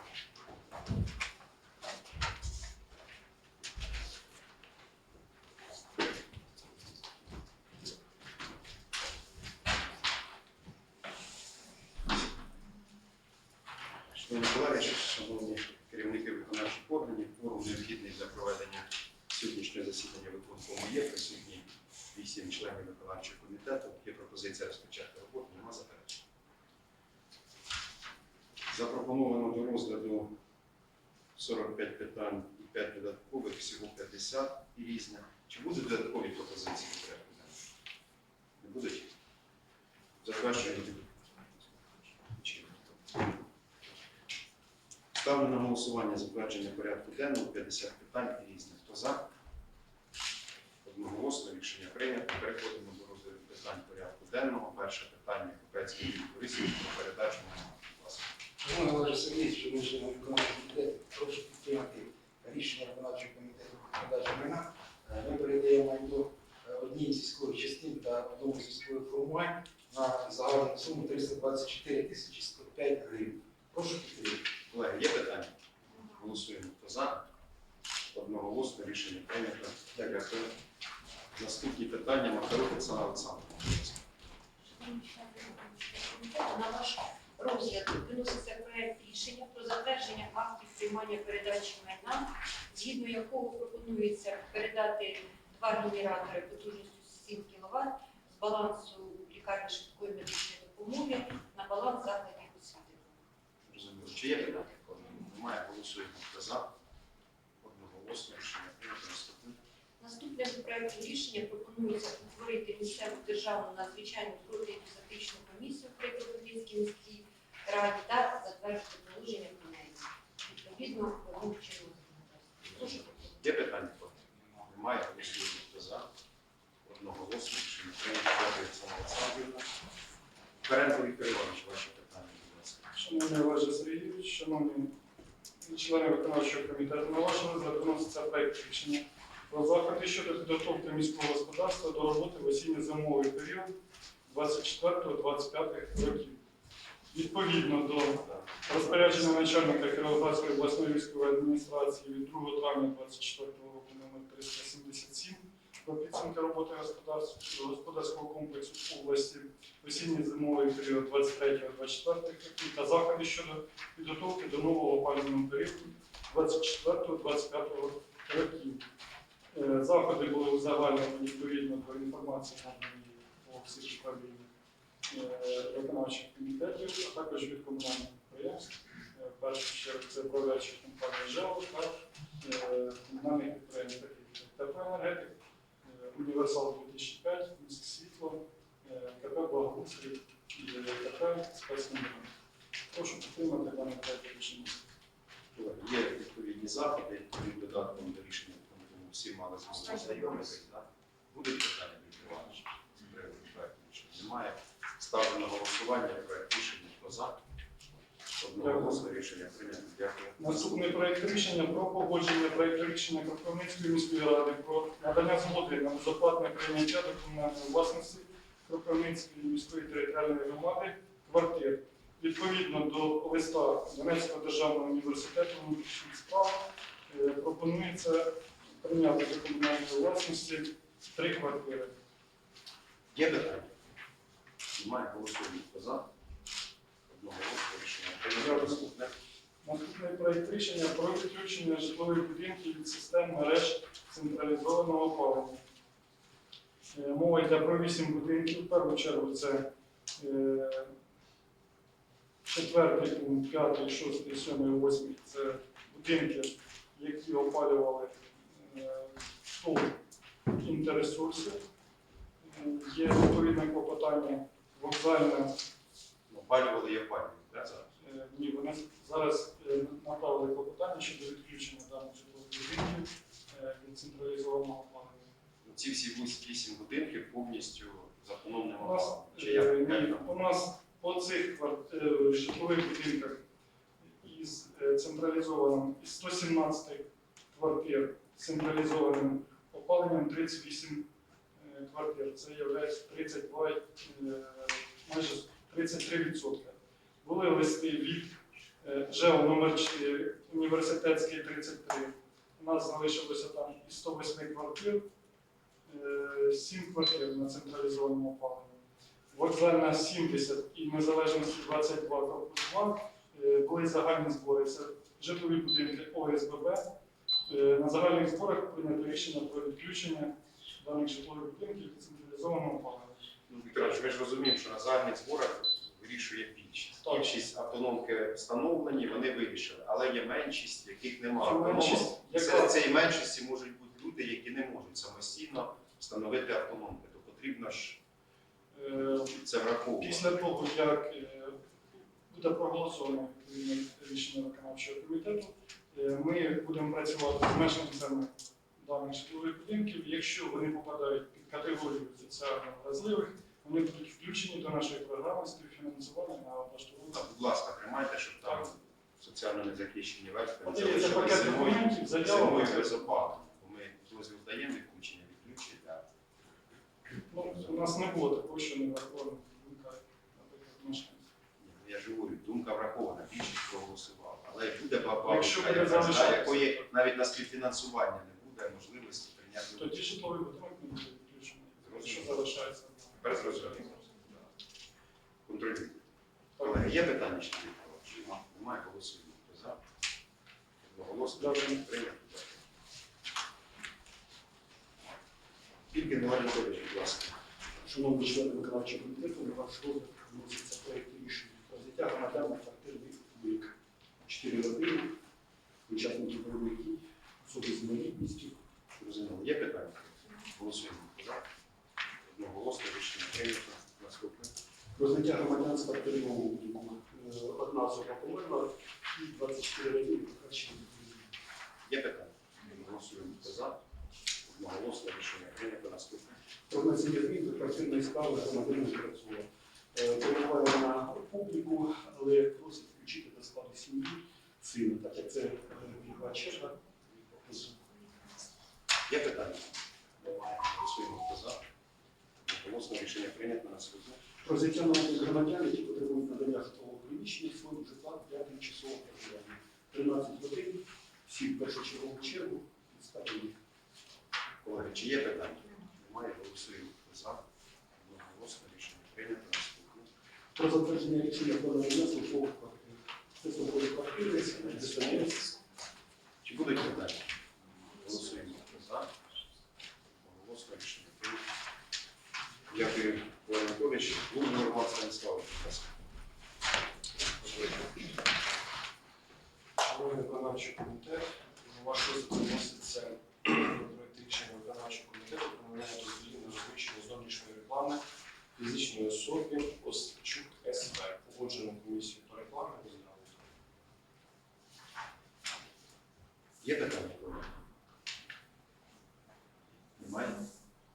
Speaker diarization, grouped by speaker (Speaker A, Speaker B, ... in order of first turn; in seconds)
Speaker A: 14.1-26.2, 28.7-30.4, 31.3-37.6, 38.6-39.1, 40.2-41.1, 42.2-43.1, 45.1-49.3, 50.8-58.3, 74.7-77.3, 78.1-80.5, 81.3-84.1, 103.7-106.7, 107.6-109.6, 122.7-126.1, 126.8-129.7, 130.6-132.9, 148.1-149.7, 195.5-207.3, 208.3-211.0, 233.1-233.8, 234.7-236.1, 237.1-239.2, 266.3-267.9, 275.6-280.4, 323.5-338.0, 339.3-340.3, 357.1-366.1, 367.4-367.9, 371.6-380.1, 381.8-382.5, 383.2-384.5, 385.4-386.0, 386.6-389.8, 390.8-392.7, 395.9-397.4, 408.9-411.4, 412.2-414.5, 421.9-423.8, 424.4-426.3, 439.1-441.6, 442.4-444.2, 454.6-457.4, 457.9-460.1, 464.2-465.4, 466.4-467.3, 467.8-469.1, 470.1-471.4, 472.7-475.9, 496.6-497.6, 499.9-500.4
Speaker B: 58.6-74.4
Speaker C: 84.6-103.2, 104.4-104.7, 110.0-123.4
Speaker D: 132.9-134.9, 135.6-143.7, 144.3-146.4, 147.1-168.8, 169.5-174.4, 175.1-192.3, 192.9-194.8, 208.5-209.0, 210.4-231.9, 238.3-238.8, 239.6-245.6, 246.9-249.7, 250.2-250.9, 252.4-260.0, 260.5-261.6, 262.4-265.5, 268.0-275.3, 278.8-283.4, 284.0-291.1, 291.6-305.0, 305.9-308.8, 309.3-316.8, 317.5-323.3, 327.0-327.3, 331.4-333.1, 338.7-339.4, 340.0-341.6, 342.3-357.2, 360.6-363.1, 367.3-371.3, 375.2-376.9, 379.8-383.9, 386.6-387.0, 391.4-391.8
Speaker E: 397.8-403.7, 404.2-405.1, 405.9-408.6, 414.9-421.3, 426.7-437.8, 444.4-453.5, 460.6-465.5
Speaker F: 479.8-488.0, 488.6-493.4